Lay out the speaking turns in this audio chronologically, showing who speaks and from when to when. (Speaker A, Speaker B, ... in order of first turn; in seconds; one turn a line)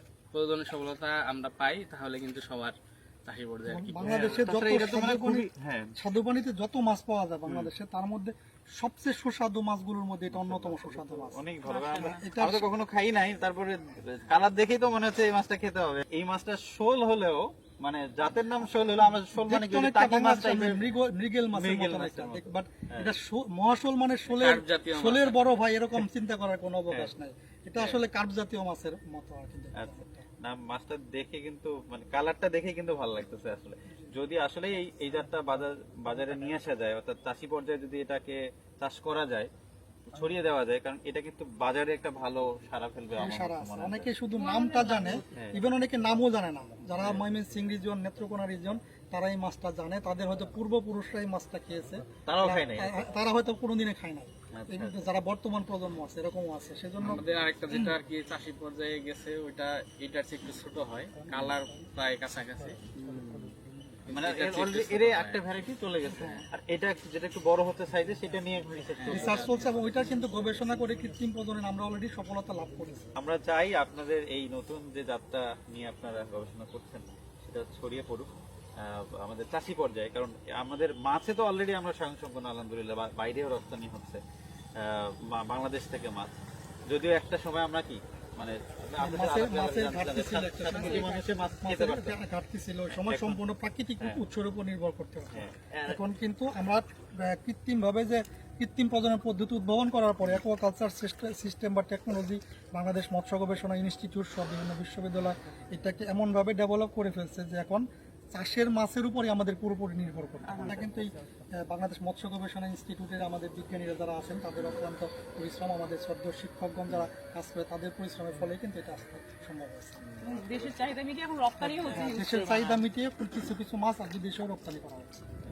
Speaker A: 0.3-4.3
Speaker B: 3.7-5.5
Speaker C: 4.0-5.9
Speaker B: 6.0-11.4
Speaker C: 10.3-20.8
Speaker D: 11.6-12.2
Speaker B: 12.0-12.7
Speaker B: 19.4-30.2
Speaker C: 21.5-23.1
Speaker A: 24.3-25.4
Speaker C: 27.8-28.0
Speaker C: 29.8-39.5
Speaker C: 40.1-44.1
Speaker B: 43.2-58.0
Speaker D: 44.3-45.5
Speaker C: 45.3-45.6
Speaker C: 47.0-47.2
Speaker C: 52.3-53.0
Speaker C: 54.5-55.0
Speaker A: 57.1-62.8
Speaker C: 63.0-63.6
Speaker A: 64.1-65.5
Speaker C: 64.1-69.8
Speaker B: 66.1-66.4
Speaker A: 69.0-69.8
Speaker B: 69.1-73.1
Speaker C: 73.2-84.2
Speaker C: 84.8-86.3
Speaker C: 86.9-92.2
Speaker B: 89.0-120.1
Speaker D: 90.7-91.3
Speaker C: 92.9-93.4
Speaker C: 95.3-96.1
Speaker D: 110.5-110.9
Speaker C: 120.2-120.8
Speaker D: 120.2-122.8
Speaker B: 121.6-125.2
Speaker C: 121.8-122.2